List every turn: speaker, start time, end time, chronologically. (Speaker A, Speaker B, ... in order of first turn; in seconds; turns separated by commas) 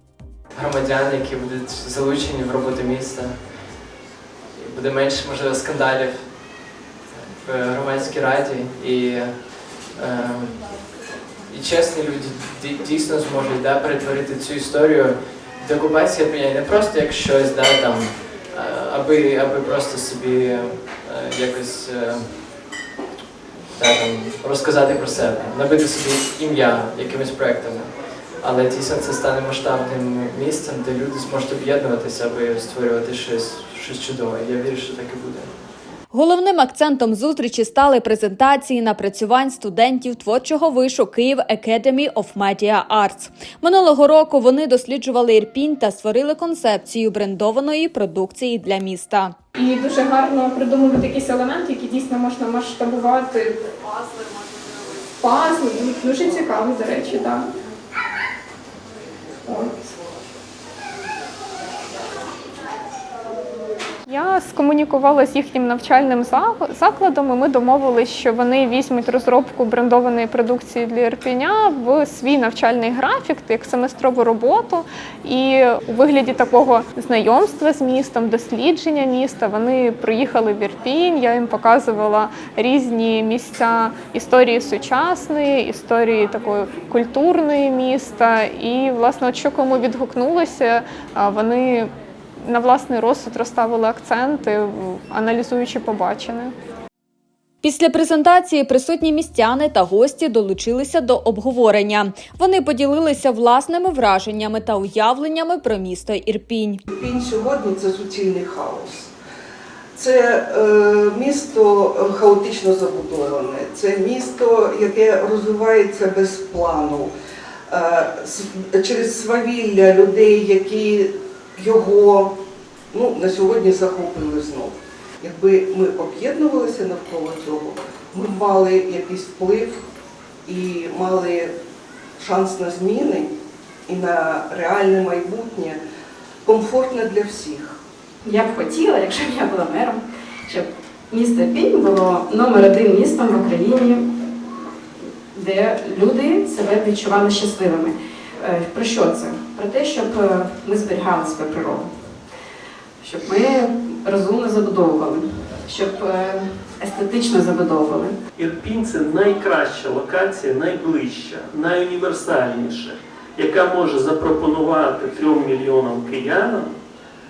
Speaker A: 0.5-3.7, Speaker A: 4.5-10.9, Speaker A: 11.5-22.6, Speaker A: 23.7-35.5, Speaker B: 36.1-49.3, Speaker C: 49.5-53.6, Speaker C: 55.2-57.5, Speaker C: 59.4-59.9, Speaker C: 64.1-91.9, Speaker C: 92.4-96.5, Speaker B: 97.6-106.8, Speaker D: 106.9-109.1, Speaker D: 109.9-117.1, Speaker D: 117.7-122.3, Speaker D: 122.9-129.8, Speaker D: 130.4-131.5, Speaker D: 132.2-133.3, Speaker D: 133.9-135.8, Speaker D: 136.4-137.8, Speaker E: 138.2-144.2, Speaker E: 145.3-152.2, Speaker E: 153.0-158.2, Speaker F: 158.4-166.7